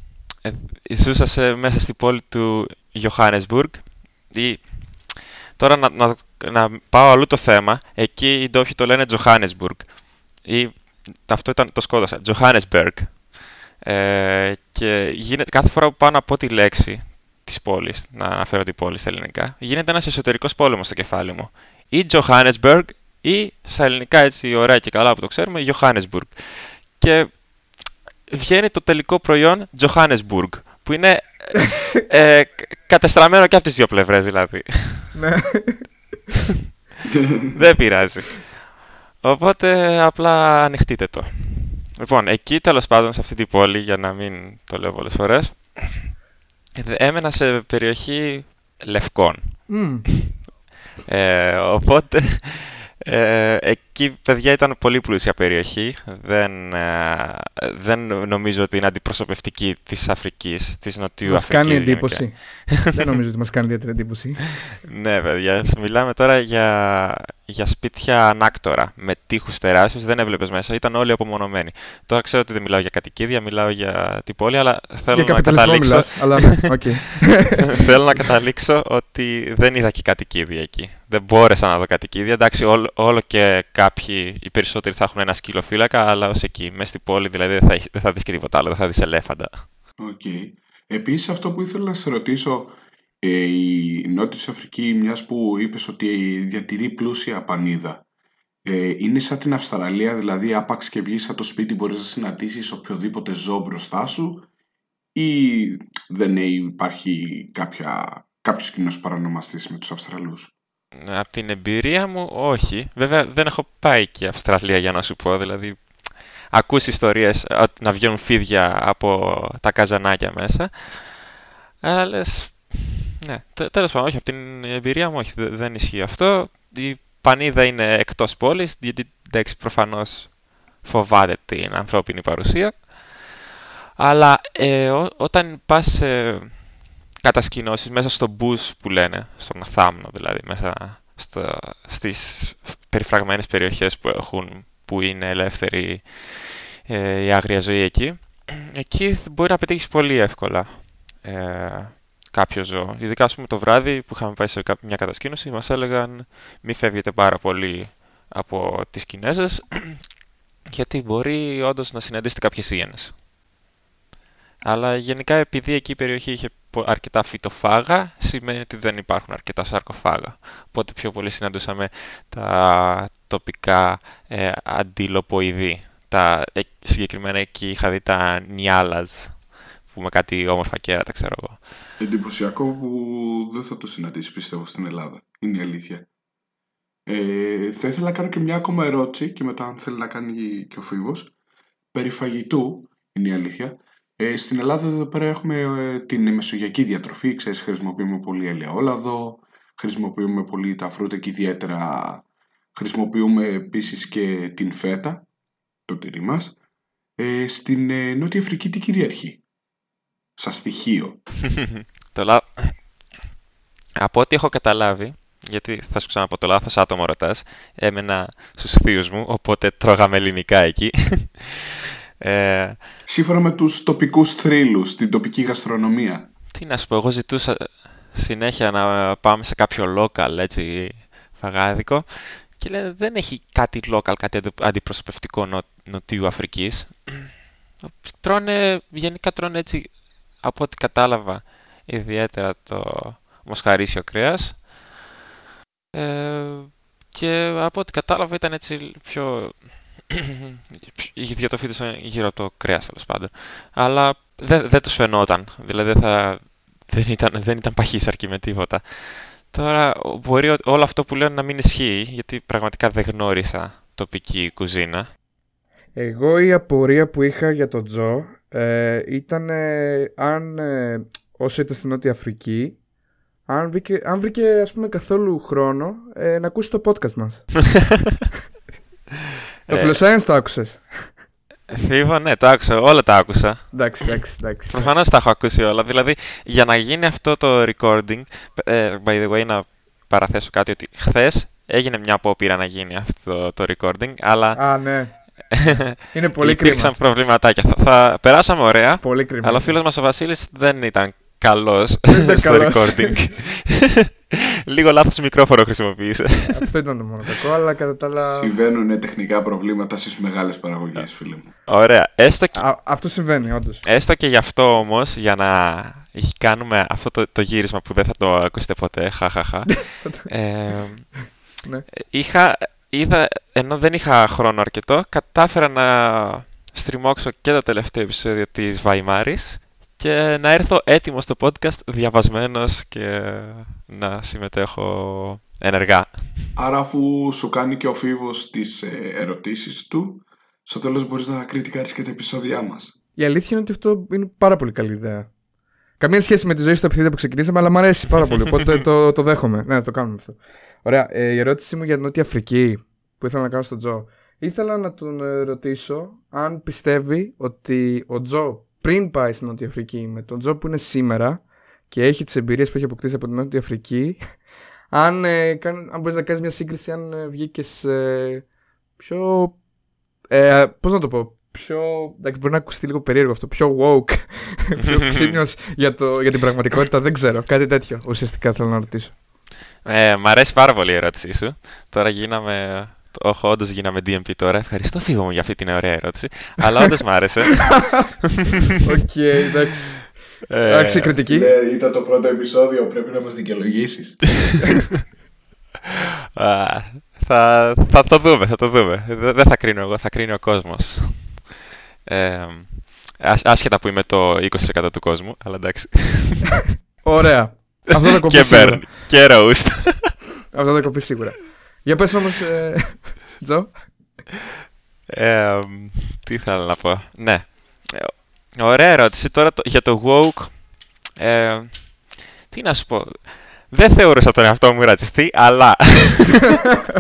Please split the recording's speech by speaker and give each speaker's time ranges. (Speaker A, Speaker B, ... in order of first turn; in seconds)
Speaker A: 0.4-35.1, 37.5-46.1, 46.8-50.3, 51.0-62.9, 64.8-89.7, 111.0-133.3, 134.0-160.1, 160.7-163.2, 164.6-181.7, 211.8-213.1, 214.0-222.8, 226.5-244.7, 245.9-265.1, 279.6-280.0, 281.7-306.7, 311.5-312.7, 313.8-321.4, 322.0-336.5, 374.8-375.4, 379.8-388.2, 390.5-391.2, 396.4-401.5, 402.0-406.6, 408.2-410.2, 415.1-426.6
Speaker B: 35.1-35.9, 49.7-50.3, 61.2-64.5, 75.1-77.8, 265.9-272.8, 273.4-277.8, 279.7-281.2, 283.7-284.9, 294.5-296.9, 299.0-299.8, 302.1-303.3, 306.5-308.5, 312.5-313.8, 319.9-320.7, 343.1-345.3, 346.0-369.6, 370.3-379.1, 388.8-391.5, 407.0-408.9, 410.5-414.2
Speaker C: 37.1-37.5, 90.0-98.0, 98.6-104.5, 105.1-110.5, 182.0-186.1, 187.1-191.3, 191.9-205.3, 205.8-206.6, 207.2-209.4, 210.4-211.2, 223.1-226.3, 308.3-311.5, 336.6-343.0, 391.2-394.6